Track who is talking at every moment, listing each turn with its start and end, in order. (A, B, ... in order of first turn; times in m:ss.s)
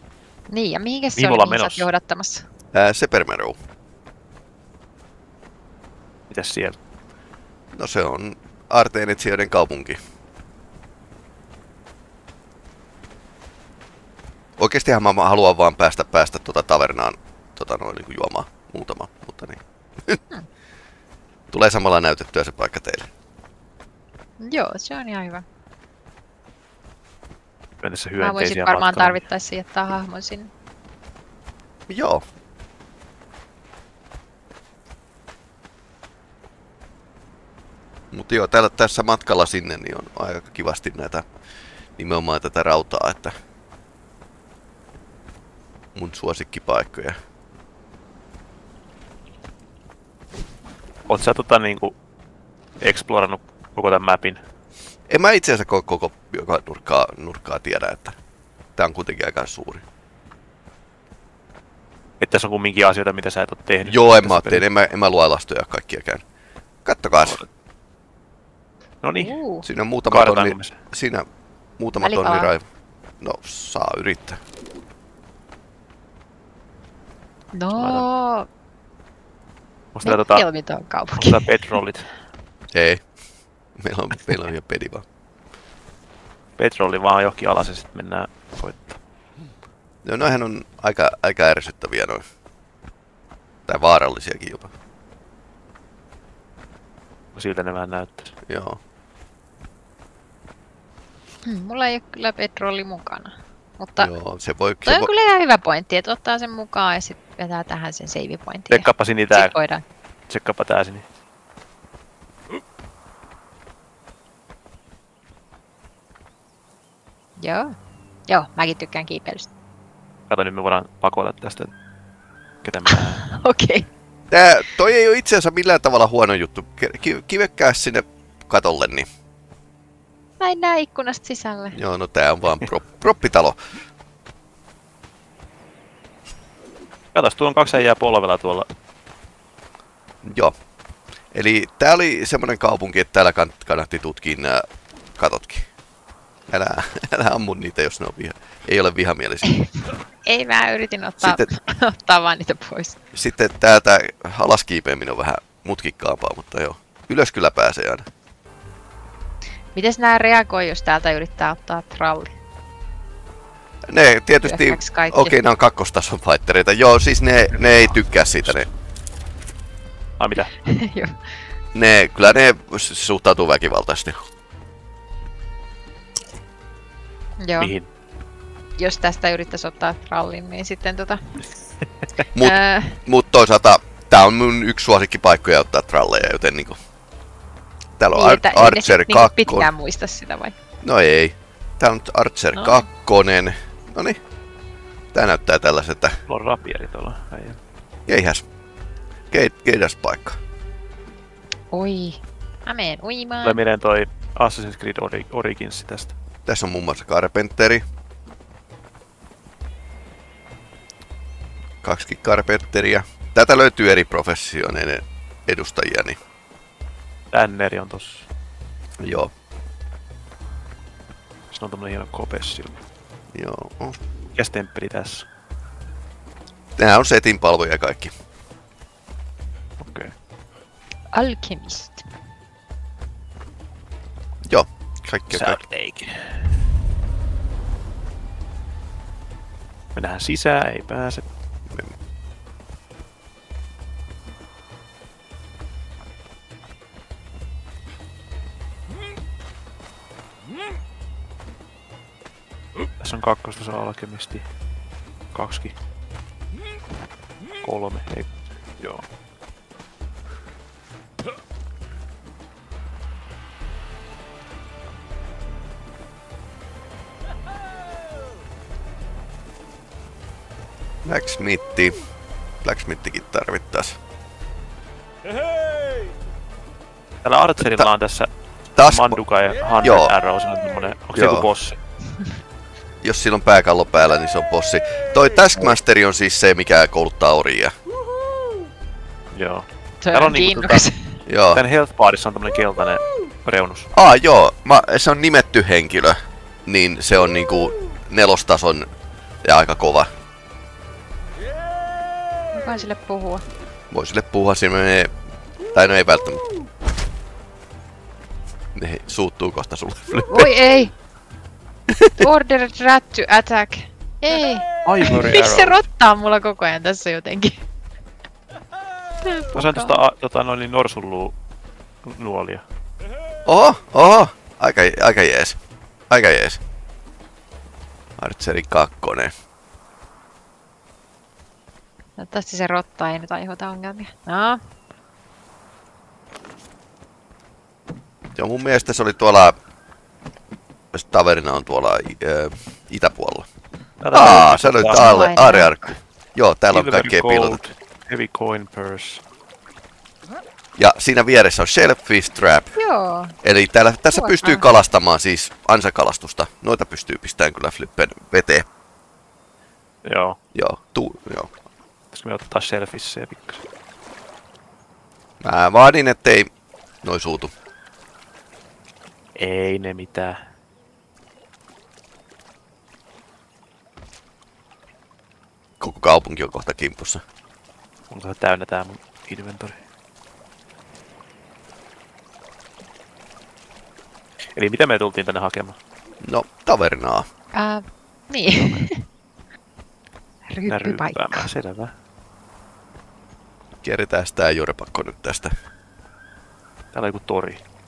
0:00.5-0:02.4 A
0:01.2-0:01.9 B
0:02.7-0:03.6 C
0:06.3-0:06.8 B
0:07.7-0:10.0 C
0:14.6-0:20.2 C
0:21.5-0:23.1 C
0:24.4-0:25.4 A
0:27.8-0:29.2 B
0:28.2-0:30.5 A
0:31.9-0:32.2 C
0:38.1-0:41.3 C
0:42.0-0:43.3 C
0:46.0-0:47.2 C
0:51.1-0:51.9 B
0:52.8-0:54.4 B
0:55.1-0:58.2 C
0:58.8-0:59.8 C
1:02.2-1:04.6 B
1:03.9-1:06.2 C
1:06.8-1:07.4 C
1:09.0-1:09.3 B
1:09.2-1:09.6 A
1:09.6-1:11.3 C
1:10.1-1:10.8 B
1:11.8-1:12.6 C
1:12.0-1:12.5 A
1:13.2-1:14.4 C
1:17.5-1:18.5 A
1:17.8-1:18.0 B
1:20.0-1:20.4 B
1:20.0-1:21.4 A
1:21.2-1:22.1 B
1:22.7-1:23.0 C
1:23.8-1:25.0 C
1:26.6-1:29.0 B
1:30.0-1:32.2 C
1:33.7-1:34.7 C
1:37.4-1:38.3 B
1:38.5-1:38.8 C
1:41.5-1:44.1 A
1:44.0-1:45.1 C
1:44.8-1:49.8 A
1:48.7-1:49.5 B
1:50.3-1:51.0 B
1:57.4-1:57.7 A
1:58.3-1:59.5 A
2:00.3-2:01.7 B
2:02.6-2:03.3 B
2:03.3-2:03.9 A
2:04.3-2:09.1 C
2:10.4-2:11.8 A
2:11.7-2:13.6 C
2:17.2-2:18.7 B
2:20.2-2:20.5 C
2:21.3-2:24.6 C
2:25.2-2:25.7 C
2:26.5-2:29.5 C
2:30.2-2:33.0 A
2:31.2-2:31.5 C
2:33.1-2:38.0 C
2:39.8-2:42.3 A
2:43.9-2:48.7 C
2:44.4-2:45.4 A
2:50.2-2:50.5 B
2:50.7-2:51.2 A
2:51.7-2:54.2 C
2:57.4-2:57.7 A
2:57.6-2:57.9 B
2:58.8-3:01.2 A
3:02.4-3:06.8 C
3:02.4-3:03.0 A
3:08.0-3:09.7 C
3:08.1-3:10.6 A
3:10.8-3:14.2 C
3:12.6-3:12.8 A
3:15.1-3:16.2 C
3:16.3-3:17.6 B
3:18.1-3:18.4 C
3:19.3-3:20.4 C
3:21.7-3:23.6 A
3:23.4-3:26.1 B
3:26.5-3:27.8 C
3:31.8-3:36.2 C
3:37.3-3:38.3 B
3:39.0-3:39.3 C
3:41.5-3:42.8 B
3:43.3-3:44.0 C
3:44.4-3:45.3 B
3:46.8-3:48.1 C
3:49.8-3:50.1 B
3:51.1-3:52.0 A
3:54.5-3:55.6 C
3:55.3-3:56.5 B
4:00.0-4:01.2 B
4:13.0-4:14.4 B
4:15.3-4:15.8 B
4:17.6-4:19.0 B
4:31.0-4:32.0 C
4:32.6-4:34.0 C
4:37.2-4:38.3 B
4:37.6-4:37.9 C
4:38.8-4:39.2 C
4:38.8-4:41.8 B
4:39.8-4:40.1 C
4:41.1-4:41.5 C
4:43.0-4:47.7 C
4:49.3-4:50.9 B
4:50.0-4:51.1 A
4:51.3-4:51.6 C
4:51.5-4:53.9 B
4:53.9-4:58.9 C
4:59.4-5:00.1 C
5:02.5-5:03.4 A
5:03.9-5:05.1 C
5:05.7-5:06.4 C
5:08.8-5:10.5 C
5:10.3-5:10.9 A
5:11.9-5:12.2 C
5:12.2-5:17.6 A
5:14.8-5:15.8 B
5:19.3-5:20.0 A
5:19.5-5:21.3 B
5:22.0-5:22.6 B
5:23.5-5:25.6 C
5:26.1-5:26.6 C
5:28.2-5:29.3 C
5:32.2-5:34.6 A
5:38.4-5:39.6 C
5:40.9-5:43.5 C
5:44.0-5:45.2 B
5:44.1-5:47.6 C
5:44.9-5:45.9 A
5:46.7-5:49.2 B
5:50.8-5:52.8 C
5:52.8-5:53.3 A
5:53.4-5:58.7 C
5:54.1-5:54.6 A
6:00.0-6:00.4 B
6:00.5-6:01.5 C
6:02.1-6:03.6 B
6:05.4-6:06.5 C
6:07.0-6:07.5 C
6:09.4-6:10.4 B
6:15.8-6:17.2 C
6:18.1-6:19.8 B
6:24.6-6:25.8 B
6:26.2-6:27.3 C
6:27.6-6:29.0 A
6:28.5-6:28.8 B
6:30.5-6:31.5 A
6:30.7-6:31.9 B
6:33.8-6:35.5 C
6:36.9-6:37.6 B